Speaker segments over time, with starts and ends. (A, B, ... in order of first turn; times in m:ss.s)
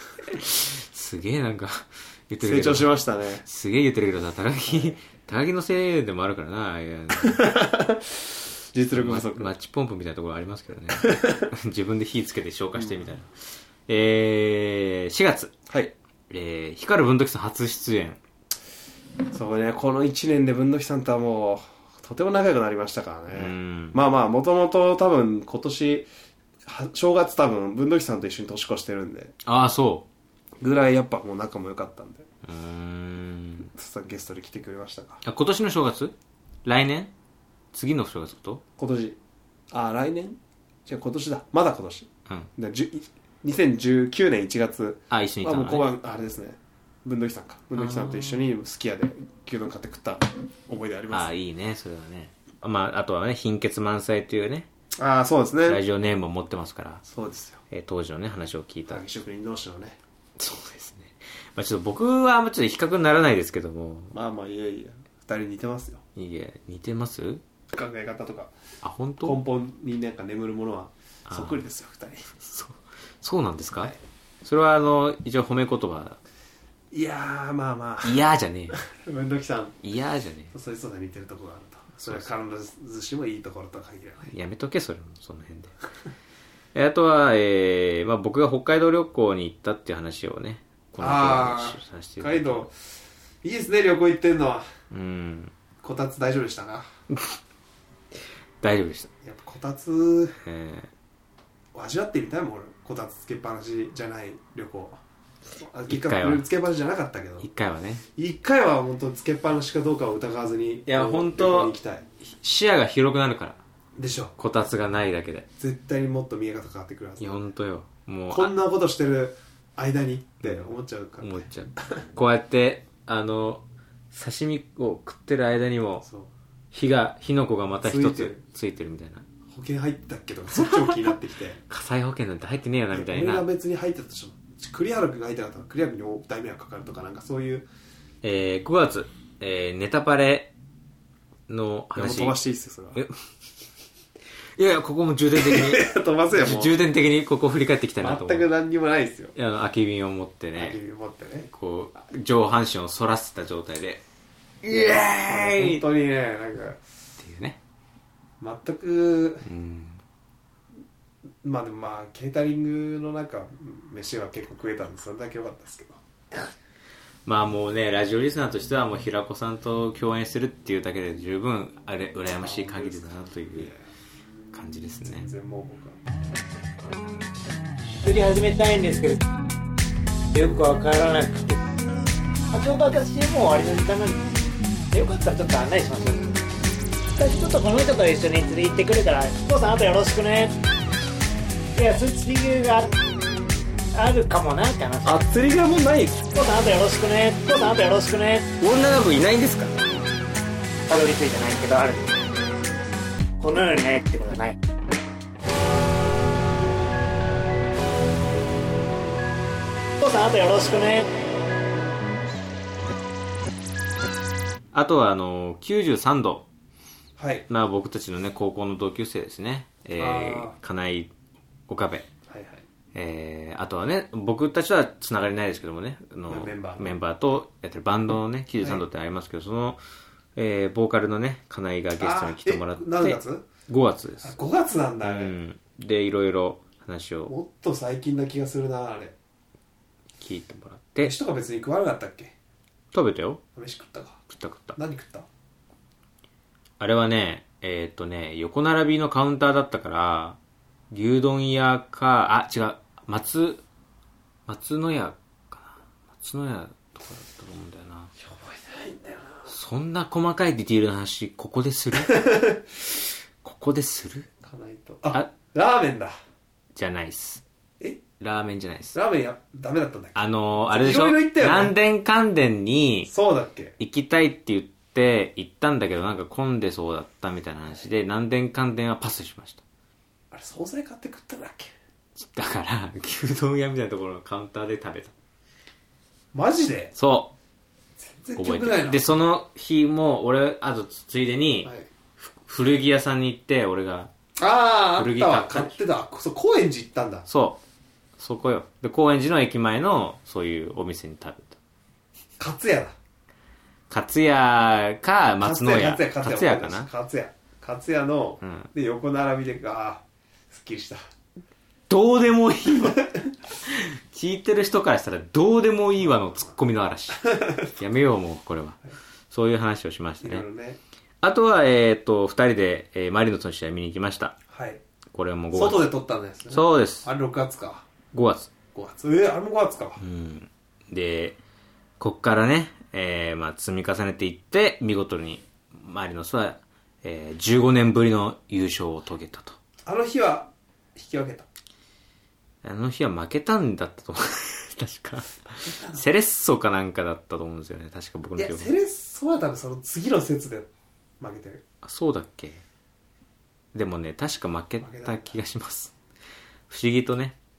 0:00.2-0:02.9 A
0:02.4-0:03.4 B
0:03.4-0:07.5 A
0:04.7-0:04.9 B
0:07.2-0:09.5 B
0:08.9-0:15.5 A
0:10.9-0:11.5 B
0:12.8-0:13.1 B
0:15.7-0:15.9 B
0:16.3-0:18.2 A
0:19.3-0:26.1 B
0:23.3-0:24.0 A
0:26.6-0:29.3 B
0:29.4-0:30.1 A
0:30.6-0:32.3 B
0:32.4-0:33.7 A
0:33.7-0:35.2 B
0:35.2-0:37.1 A
0:37.7-0:38.6 A
0:38.8-0:39.2 B
0:39.7-0:51.3 B
0:45.1-0:45.9 A
0:47.8-0:48.4 A
0:51.1-0:54.7 A
0:55.0-0:55.8 B
0:55.6-0:57.0 A
0:57.0-0:57.6 B
0:57.7-0:59.0 A
0:58.9-1:00.0 B
1:00.4-1:04.1 A
1:04.1-1:06.0 B
1:06.2-1:07.4 A
1:07.7-1:08.5 B
1:08.8-1:09.4 A
1:09.2-1:12.3 B
1:11.3-1:11.6 A
1:12.4-1:16.2 A
1:16.9-1:18.2 B
1:18.0-1:18.8 A
1:18.7-1:19.8 B
1:19.8-1:20.5 A
1:20.5-1:24.3 B
1:22.0-1:22.3 A
1:24.3-1:25.7 A
1:26.7-1:32.7 A
1:31.0-1:32.7 B
1:33.4-1:34.6 B
1:34.9-1:35.5 A
1:35.8-1:36.9 B
1:37.1-1:37.4 A
1:38.6-1:39.1 A
1:39.2-1:40.4 B
1:40.4-1:40.9 A
1:41.7-1:45.0 B
1:45.6-1:47.5 B
1:45.9-1:46.5 A
1:47.4-1:48.0 A
1:48.1-1:52.1 B
1:50.9-1:51.7 A
1:52.2-1:53.6 A
1:54.0-1:54.3 B
1:54.4-1:55.5 A
1:55.6-1:57.4 B
1:57.2-1:58.5 A
1:58.3-2:02.0 B
2:00.4-2:06.0 A
2:06.0-2:06.3 B
2:06.7-2:09.2 A
2:07.8-2:08.4 B
2:09.5-2:11.6 B
2:11.7-2:13.4 A
2:12.9-2:17.6 B
2:18.2-2:20.5 A
2:21.5-2:22.4 A
2:21.9-2:23.0 B
2:24.6-2:28.5 A
2:25.3-2:26.7 B
2:28.0-2:29.3 B
2:29.3-2:30.8 A
2:30.6-2:31.5 B
2:31.5-2:34.0 A
2:34.6-2:35.8 A
2:34.7-2:36.8 B
2:37.2-2:37.6 A
2:38.4-2:39.4 B
2:39.4-2:40.0 A
2:41.4-2:46.0 B
2:47.2-2:53.7 A
2:52.4-2:53.8 B
2:54.5-2:55.3 A
2:55.1-2:56.0 B
2:58.0-2:59.2 C
3:00.3-3:01.6 C
3:02.5-3:04.3 C
3:04.9-3:06.4 C
3:07.2-3:10.5 C
3:11.8-3:12.9 C
3:13.9-3:15.2 C
3:15.0-3:16.2 B
3:16.3-3:18.5 C
3:18.6-3:19.7 B
3:20.9-3:22.2 C
3:23.4-3:24.6 C
3:30.0-3:31.1 C
3:34.7-3:36.5 A
3:37.2-3:37.4 B
3:37.5-3:41.1 A
3:40.0-3:40.6 B
3:41.7-3:42.1 A
3:42.3-3:42.6 B
3:42.9-3:49.8 A
3:46.3-3:47.0 B
3:50.4-3:54.3 A
3:52.0-3:53.4 B
3:54.2-3:55.3 B
3:55.0-3:57.3 A
3:57.3-3:59.1 B
4:00.2-4:01.1 A
4:01.0-4:02.3 B
4:02.9-4:03.4 A
4:03.5-4:04.2 B
4:04.3-4:04.8 A
4:04.8-4:05.3 B
4:06.8-4:10.4 A
4:10.9-4:13.6 A
4:14.5-4:18.1 A
4:18.2-4:19.5 B
4:19.5-4:22.2 A
4:22.1-4:22.6 B
4:23.4-4:24.3 A
4:24.4-4:26.1 B
4:26.7-4:27.4 A
4:28.2-4:29.0 A
4:28.9-4:31.7 B
4:30.2-4:33.1 A
4:33.1-4:33.7 B
4:33.8-4:39.6 A
4:40.3-4:41.7 B
4:42.2-4:45.1 A
4:46.3-4:46.9 B
4:46.9-4:47.3 A
4:48.0-4:49.1 B
4:48.4-4:54.1 A
4:54.4-4:57.3 B
4:55.0-4:55.8 A
4:57.3-4:57.6 A
4:58.2-5:01.6 A
5:02.4-5:02.9 B
5:03.9-5:06.9 A
5:05.4-5:11.0 B
5:08.4-5:08.7 A
5:11.9-5:13.0 A
5:13.6-5:18.8 A
5:17.4-5:17.6 B
5:19.3-5:20.4 A
5:20.2-5:20.8 B
5:21.2-5:24.4 A
5:24.5-5:24.8 B
5:25.1-5:25.9 A
5:25.5-5:27.8 B
5:26.5-5:27.1 A
5:28.1-5:28.5 A
5:28.7-5:30.0 B
5:30.0-5:31.4 A
5:32.0-5:39.6 A
5:39.8-5:41.5 B
5:42.6-5:48.7 A
5:48.4-5:50.7 B
5:51.2-5:51.6 B
5:51.8-5:52.6 A
5:53.7-5:55.9 A
5:54.8-5:55.4 B
5:56.7-5:57.4 A